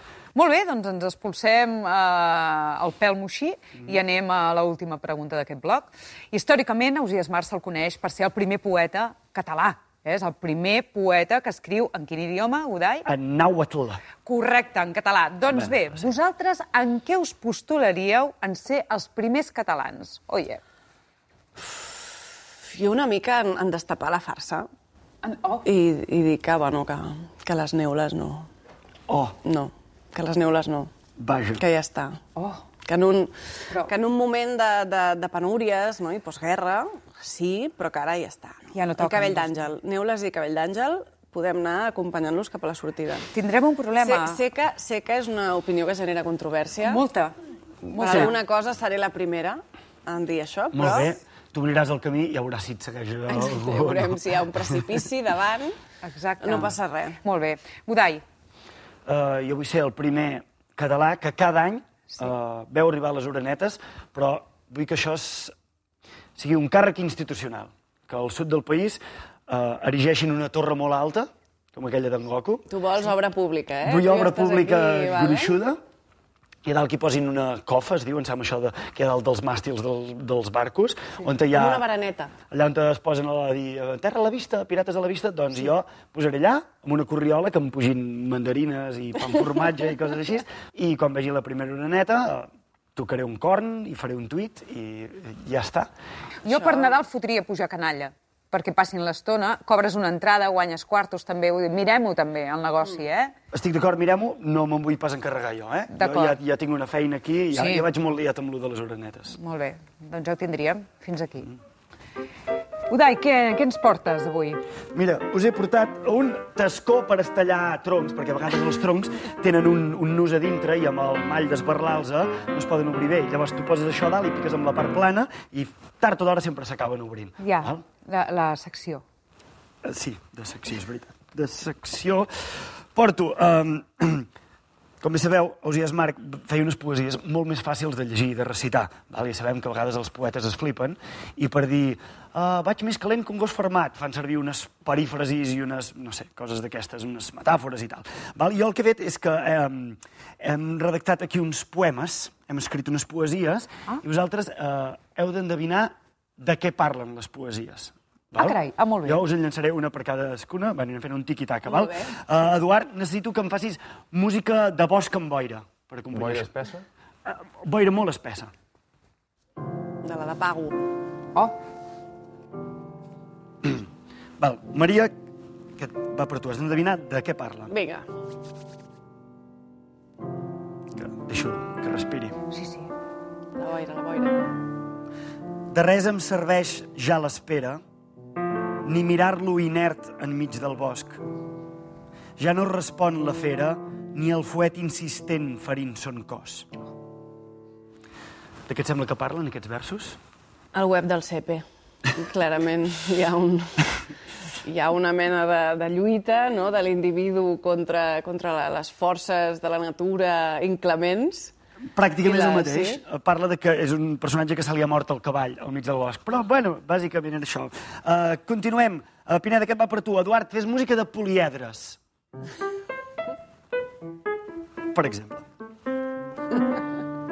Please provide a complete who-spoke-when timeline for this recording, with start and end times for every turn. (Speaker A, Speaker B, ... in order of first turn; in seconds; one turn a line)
Speaker A: 0.3-13.1
Speaker B: 13.0-14.0
Speaker A: 14.2-20.6
Speaker B: 15.5-15.8
Speaker C: 21.7-22.1
Speaker C: 22.6-24.7
Speaker A: 25.2-25.7
Speaker C: 25.6-28.5
Speaker B: 29.1-29.4
Speaker C: 29.4-30.9
Speaker B: 31.2-31.6
Speaker C: 31.6-32.2
Speaker A: 32.4-32.6
Speaker C: 32.9-43.3
Speaker A: 38.7-39.5
Speaker A: 43.3-44.4
Speaker C: 44.0-47.0
Speaker A: 46.8-48.4
Speaker C: 48.0-51.1
Speaker B: 50.7-54.2
Speaker C: 53.3-55.8
Speaker A: 56.0-58.2
Speaker C: 56.4-57.2
Speaker B: 59.0-65.5
Speaker B: 66.3-72.7
Speaker C: 72.7-75.5
Speaker B: 73.8-75.8
Speaker B: 76.6-81.8
Speaker C: 81.5-82.3
Speaker B: 82.5-95.9
Speaker A: 96.4-103.3
Speaker C: 96.5-96.9
Speaker B: 103.5-109.3
Speaker A: 105.9-106.4
Speaker A: 107.5-107.9
Speaker A: 109.3-111.5
Speaker A: 112.9-114.6
Speaker B: 114.9-127.8
Speaker A: 127.4-129.0
Speaker B: 129.8-132.3
Speaker B: 132.9-134.3
Speaker B: 135.0-168.5
Speaker A: 158.3-159.2
Speaker C: 161.7-162.1
Speaker C: 170.0-170.8
Speaker B: 174.4-175.1
Speaker B: 175.8-177.7
Speaker C: 177.7-178.1
Speaker B: 180.9-182.4
Speaker A: 182.5-182.9
Speaker C: 183.5-184.6
Speaker B: 185.7-187.8
Speaker B: 188.8-191.2
Speaker B: 192.4-196.7
Speaker B: 198.7-200.2
Speaker C: 200.7-203.9
Speaker C: 204.6-211.5
Speaker B: 211.9-222.0
Speaker C: 212.2-213.0
Speaker B: 224.9-225.4